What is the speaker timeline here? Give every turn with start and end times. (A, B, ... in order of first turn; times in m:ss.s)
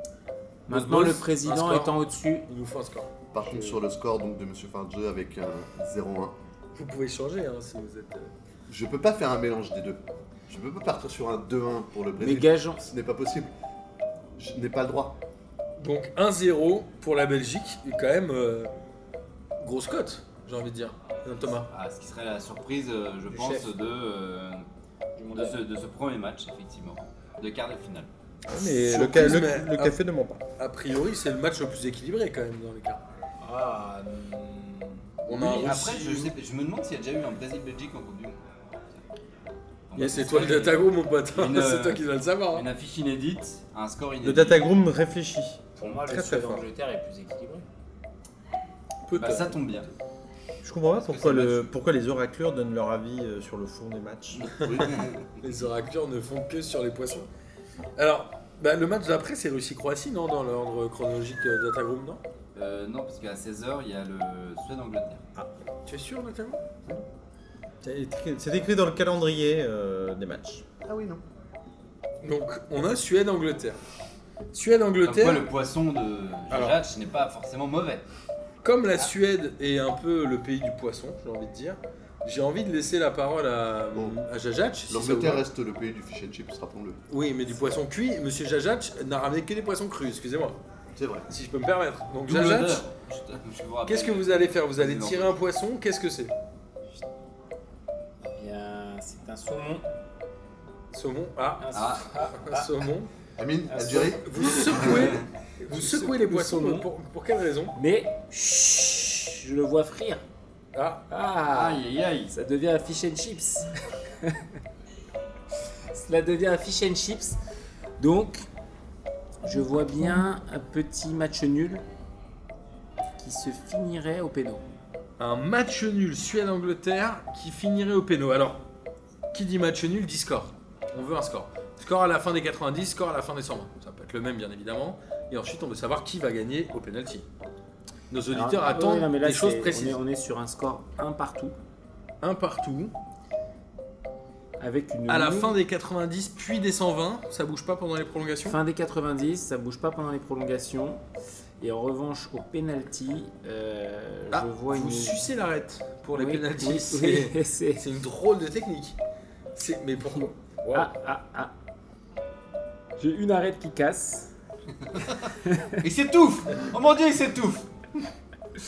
0:00.7-0:02.5 A
0:00.7-0:03.1 B
0:03.3-0:06.4 C
0:03.4-0:03.8 A
0:06.8-0:08.3 B
0:08.7-0:13.5 C
0:12.2-0:12.8 A
0:14.4-0:15.2 C
0:15.8-0:18.7 B
0:19.6-0:21.7 B
0:21.7-0:24.6 D
0:23.3-0:23.7 A
0:25.2-0:25.6 A
0:25.3-0:28.1 D
0:28.5-0:30.4 E
0:28.6-0:30.0 B
0:30.6-0:33.0 B
0:33.4-0:35.0 A
0:35.3-0:36.3 B
0:35.3-0:38.4 D
0:39.9-0:44.7 D
0:40.0-0:42.7 B
0:44.2-0:46.6 E
0:45.8-0:47.6 A
0:49.1-0:49.6 B
0:49.1-0:49.9 D
0:50.6-0:54.5 E
0:51.0-0:51.7 D
0:54.4-0:55.3 D
0:54.6-0:55.0 C
0:55.4-0:57.3 B
0:58.0-1:02.2 B
1:02.6-1:05.2 D
1:05.9-1:06.6 B
1:07.8-1:10.6 E
1:10.8-1:11.2 C
1:12.2-1:13.8 B
1:14.5-1:15.5 B
1:15.0-1:18.0 D
1:16.5-1:16.8 B
1:18.6-1:25.4 B
1:24.9-1:27.0 C
1:27.1-1:30.6 B
1:31.0-1:31.3 C
1:31.3-1:32.8 B
1:32.3-1:35.4 D
1:33.9-1:36.3 B
1:38.3-1:39.9 A
1:40.9-1:41.7 B
1:41.6-1:42.7 A
1:41.7-1:42.0 D
1:42.3-1:43.1 B
1:43.4-1:44.9 C
1:43.7-1:44.2 A
1:44.2-1:47.7 B
1:45.7-1:46.9 A
1:47.8-1:50.2 A
1:50.7-1:51.0 B
1:51.1-1:53.7 A
1:51.5-1:52.3 D
1:55.9-1:57.4 A
1:58.0-1:58.5 A
1:59.4-2:01.8 A
2:03.2-2:04.6 A
2:05.2-2:08.6 B
2:09.3-2:17.3 B
2:18.1-2:20.0 B
2:18.3-2:21.6 A
2:22.2-2:22.9 B
2:24.6-2:25.6 A
2:25.1-2:28.6 B
2:28.4-2:31.0 A
2:31.6-2:35.2 A
2:34.3-2:39.0 B
2:36.1-2:37.8 A
2:39.5-2:40.9 B
2:40.7-2:41.5 A
2:43.0-2:44.3 A
2:45.4-2:45.8 A
2:45.8-2:47.7 D